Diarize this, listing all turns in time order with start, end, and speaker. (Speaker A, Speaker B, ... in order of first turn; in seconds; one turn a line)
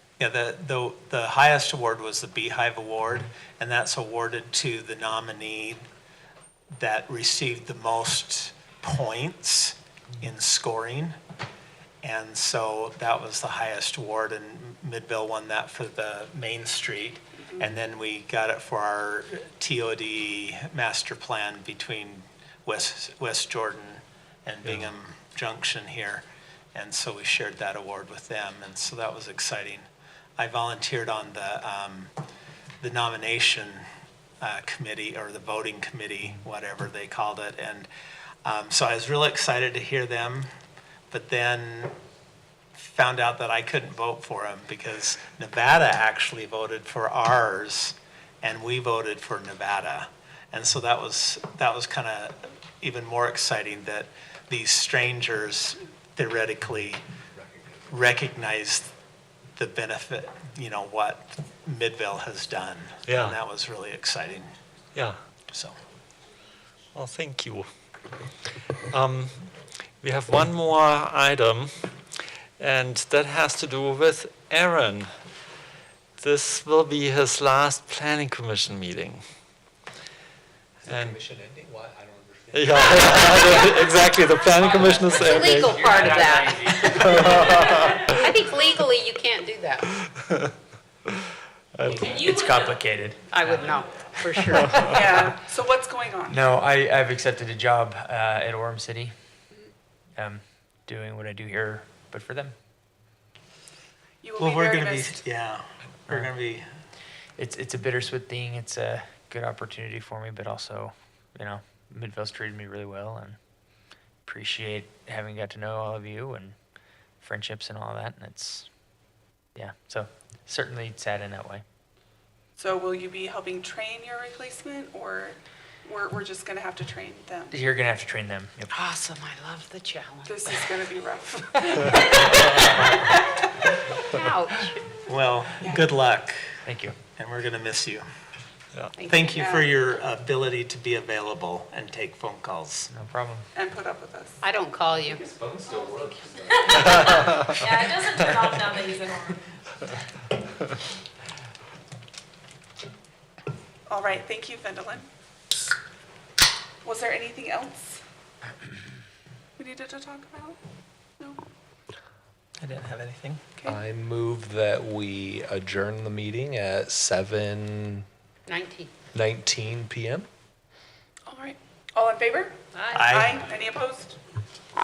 Speaker A: 0.2-5.8
Speaker A: 6.7-11.2
Speaker A: 12.0-29.9
Speaker A: 30.4-32.1
Speaker A: 32.8-33.8
Speaker A: 34.4-37.9
Speaker A: 38.5-40.5
Speaker A: 41.1-41.9
Speaker A: 42.8-57.0
Speaker B: 57.4-57.8
Speaker A: 57.9-58.9
Speaker A: 59.6-64.5
Speaker C: 63.1-63.4
Speaker C: 66.9-67.7
Speaker C: 68.9-69.5
Speaker C: 70.0-71.9
Speaker C: 72.6-75.1
Speaker C: 76.2-79.2
Speaker B: 80.8-83.8
Speaker C: 80.9-81.2
Speaker C: 82.5-88.2
Speaker D: 85.2-87.2
Speaker B: 85.9-87.1
Speaker E: 87.3-88.3
Speaker D: 88.1-90.0
Speaker C: 91.7-92.6
Speaker E: 91.9-92.8
Speaker D: 93.2-95.0
Speaker C: 93.3-93.8
Speaker C: 94.5-95.1
Speaker F: 94.9-96.3
Speaker G: 96.3-99.1
Speaker G: 100.2-102.6
Speaker F: 104.2-105.2
Speaker A: 104.4-106.7
Speaker G: 107.4-113.4
Speaker G: 114.2-116.6
Speaker G: 117.2-118.7
Speaker G: 119.5-121.6
Speaker F: 122.6-127.5
Speaker G: 127.5-128.7
Speaker D: 128.6-130.8
Speaker F: 130.3-133.7
Speaker D: 134.1-134.8
Speaker A: 135.1-136.4
Speaker G: 136.7-136.9
Speaker A: 137.2-138.0
Speaker D: 139.0-139.4
Speaker A: 139.0-142.9
Speaker F: 139.4-139.7
Speaker G: 142.9-143.4
Speaker F: 143.6-144.4
Speaker D: 144.4-145.2
Speaker B: 145.1-148.3
Speaker E: 146.5-149.4
Speaker F: 153.9-155.1
Speaker F: 156.8-158.0
Speaker F: 159.6-160.6
Speaker A: 162.6-163.6
Speaker B: 163.7-168.1
Speaker D: 168.5-168.9
Speaker B: 169.1-170.3
Speaker F: 171.3-174.2
Speaker D: 172.7-173.1
Speaker A: 173.0-173.4